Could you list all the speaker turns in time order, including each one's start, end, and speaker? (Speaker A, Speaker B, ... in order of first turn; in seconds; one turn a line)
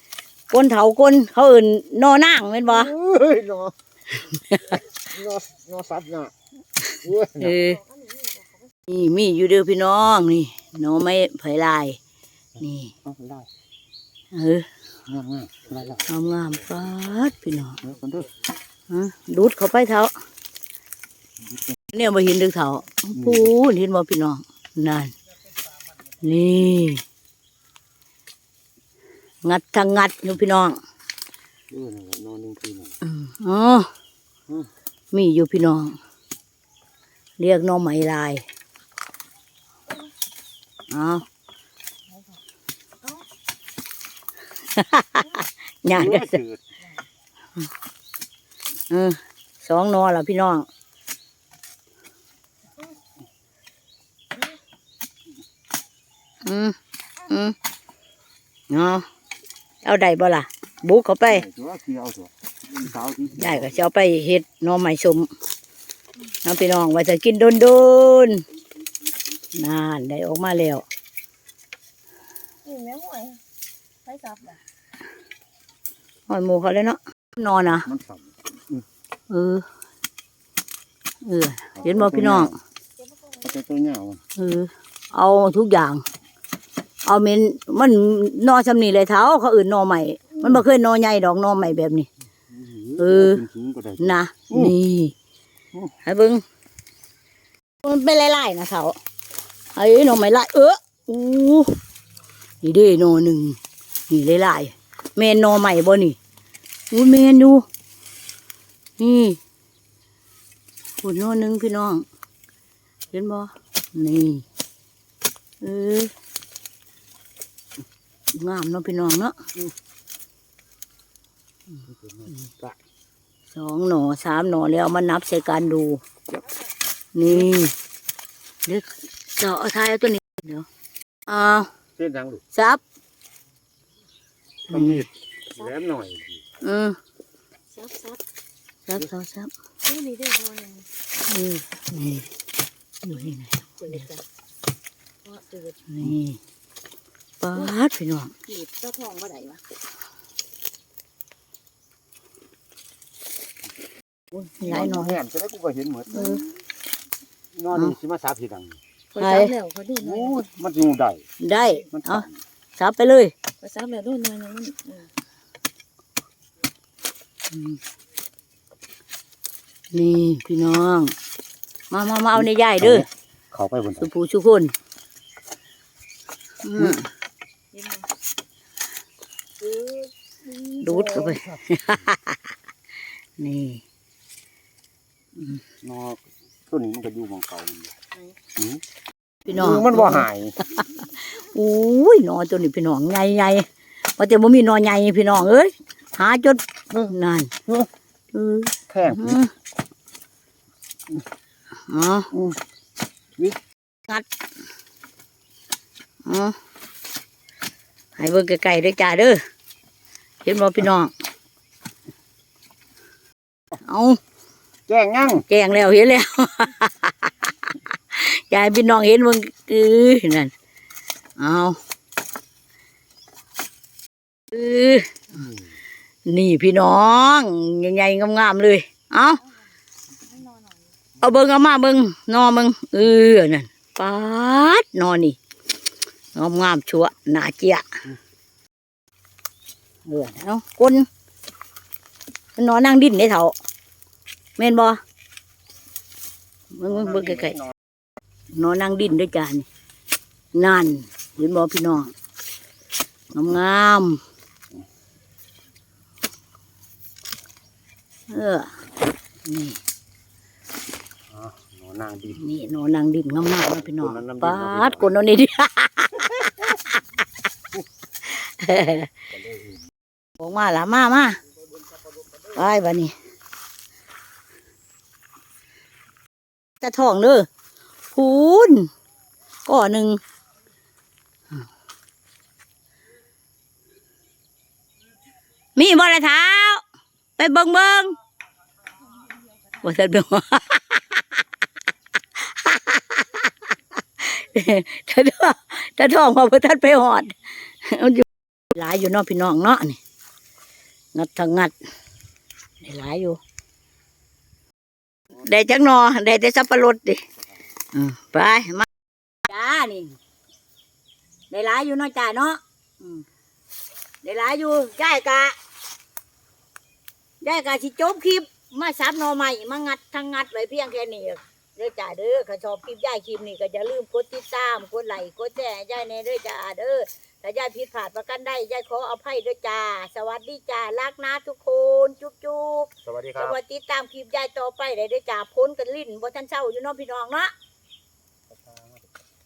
Speaker A: 0.5-2.9
Speaker B: 2.9-3.7
Speaker A: 4.2-4.8
Speaker B: 5.1-6.3
Speaker B: 7.0-7.6
Speaker A: 7.3-7.8
Speaker A: 8.9-12.0
Speaker A: 12.6-12.9
Speaker B: 13.0-13.5
Speaker A: 14.3-14.7
Speaker B: 15.1-16.1
Speaker A: 16.1-17.8
Speaker B: 17.9-18.3
Speaker A: 18.9-20.1
Speaker A: 21.9-25.1
Speaker A: 26.2-27.0
Speaker A: 29.4-30.8
Speaker B: 31.7-32.9
Speaker A: 33.0-33.9
Speaker A: 35.1-36.0
Speaker A: 37.4-38.4
Speaker A: 40.9-41.2
Speaker A: 44.7-46.4
Speaker B: 45.9-46.6
Speaker A: 48.9-50.7
Speaker A: 56.5-57.6
Speaker A: 58.7-59.0
Speaker A: 59.8-61.5
Speaker B: 61.3-63.6
Speaker A: 63.4-65.3
Speaker A: 66.4-68.4
Speaker A: 69.5-70.8
Speaker C: 72.7-73.4
Speaker C: 74.1-74.6
Speaker A: 76.3-77.9
Speaker B: 77.7-78.8
Speaker A: 79.3-79.7
Speaker A: 81.2-82.6
Speaker B: 81.8-82.5
Speaker B: 83.4-84.2
Speaker A: 84.4-86.0
Speaker A: 87.0-92.1
Speaker B: 92.5-94.7
Speaker A: 93.0-93.4
Speaker A: 94.0-95.1
Speaker A: 96.0-96.4
Speaker A: 97.8-99.0
Speaker A: 99.8-101.8
Speaker A: 102.6-106.2
Speaker A: 106.9-107.7
Speaker A: 109.0-109.4
Speaker A: 111.0-112.1
Speaker A: 113.1-114.5
Speaker A: 115.6-116.1
Speaker A: 118.3-119.5
Speaker B: 122.0-122.8
Speaker A: 123.5-126.0
Speaker A: 127.2-127.7
Speaker A: 128.7-130.7
Speaker A: 131.3-131.7
Speaker B: 132.0-132.4
Speaker A: 132.5-132.8
Speaker A: 134.7-135.1
Speaker B: 134.7-136.4
Speaker A: 136.6-137.0
Speaker C: 137.7-138.2
Speaker A: 138.9-139.5
Speaker C: 139.9-140.9
Speaker A: 141.3-142.3
Speaker A: 143.0-144.1
Speaker C: 143.9-144.2
Speaker C: 145.3-145.7
Speaker A: 145.9-146.4
Speaker A: 147.4-148.3
Speaker C: 148.5-149.6
Speaker A: 154.3-155.2
Speaker B: 154.7-156.3
Speaker A: 156.1-156.4
Speaker B: 157.5-158.8
Speaker C: 159.2-160.4
Speaker A: 159.2-159.6
Speaker B: 160.0-161.2
Speaker A: 161.4-163.3
Speaker B: 161.9-162.3
Speaker C: 163.6-165.1
Speaker A: 167.5-167.8
Speaker A: 169.9-171.1
Speaker A: 171.9-173.1
Speaker B: 172.8-174.1
Speaker A: 174.0-174.7
Speaker A: 176.6-177.1
Speaker A: 180.8-182.4
Speaker A: 183.4-183.8
Speaker B: 185.8-187.9
Speaker B: 188.6-188.8
Speaker A: 189.5-193.7
Speaker B: 189.5-190.6
Speaker A: 194.2-197.5
Speaker A: 198.3-199.5
Speaker B: 198.9-199.4
Speaker A: 201.9-202.3
Speaker A: 206.2-206.6
Speaker A: 208.2-209.4
Speaker A: 210.4-211.1
Speaker A: 213.8-214.2
Speaker B: 214.9-215.4
Speaker A: 215.3-217.3
Speaker A: 218.1-220.5
Speaker A: 221.4-221.8
Speaker A: 224.5-225.2
Speaker A: 226.3-229.4
Speaker A: 231.2-235.4
Speaker A: 236.3-237.9
Speaker A: 240.1-241.1
Speaker A: 242.6-243.5
Speaker A: 244.6-245.0
Speaker A: 246.7-247.6
Speaker A: 248.6-249.7
Speaker A: 250.6-252.1
Speaker A: 253.3-254.2
Speaker A: 258.3-258.7
Speaker A: 259.5-259.8
Speaker B: 261.3-262.4
Speaker A: 262.4-266.8
Speaker B: 264.0-265.1
Speaker A: 268.2-269.1
Speaker B: 269.4-269.7
Speaker A: 270.4-271.4
Speaker A: 272.5-273.1
Speaker A: 276.8-277.5
Speaker A: 278.1-278.9
Speaker A: 279.7-280.2
Speaker A: 285.8-286.8
Speaker A: 287.4-288.2
Speaker A: 289.8-291.2
Speaker A: 292.4-293.5
Speaker A: 294.2-300.0
Speaker A: 301.1-301.7
Speaker A: 302.8-303.4
Speaker A: 305.4-307.2
Speaker A: 307.9-308.9
Speaker A: 309.5-310.2
Speaker A: 311.5-313.2
Speaker A: 314.2-315.6
Speaker A: 317.4-337.5
Speaker B: 333.1-333.4